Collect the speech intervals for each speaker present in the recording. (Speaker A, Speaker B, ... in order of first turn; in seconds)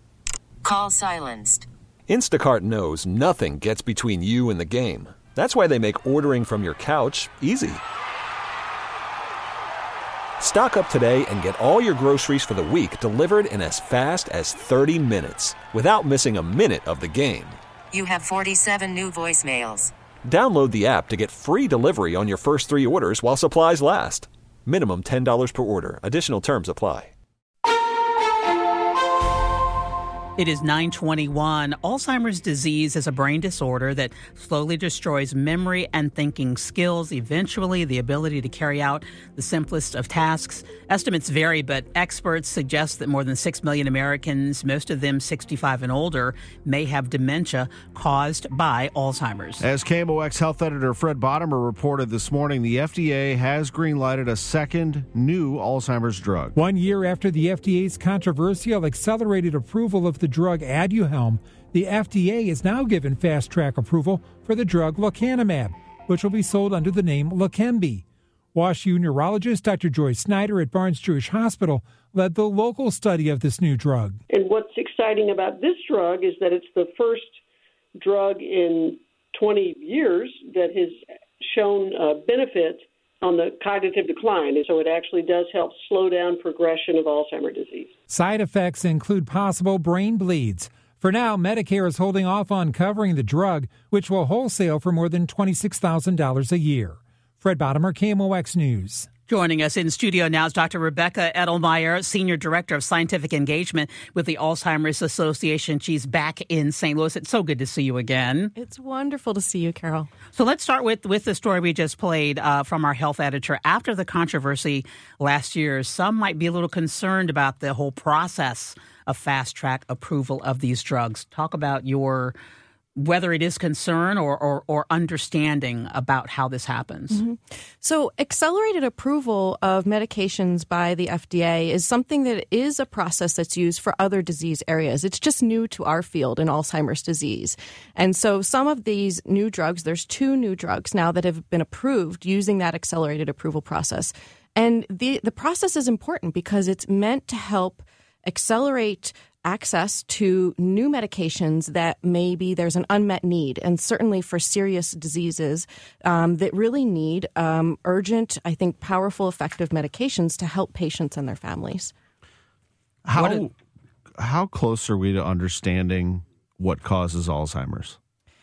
Speaker A: 0.6-1.7, 17.9-19.9
Speaker B: 2.1-7.8, 10.4-17.6, 20.2-27.1
Speaker C: 30.4-49.6, 99.3-108.5, 110.3-122.3, 123.0-127.2, 163.1-163.4
Speaker D: 49.6-56.5, 163.0-163.5, 164.2-168.0
Speaker E: 56.5-74.2, 88.1-99.1
Speaker F: 74.3-77.4, 78.0-87.9
Speaker G: 108.5-110.1, 127.1-161.9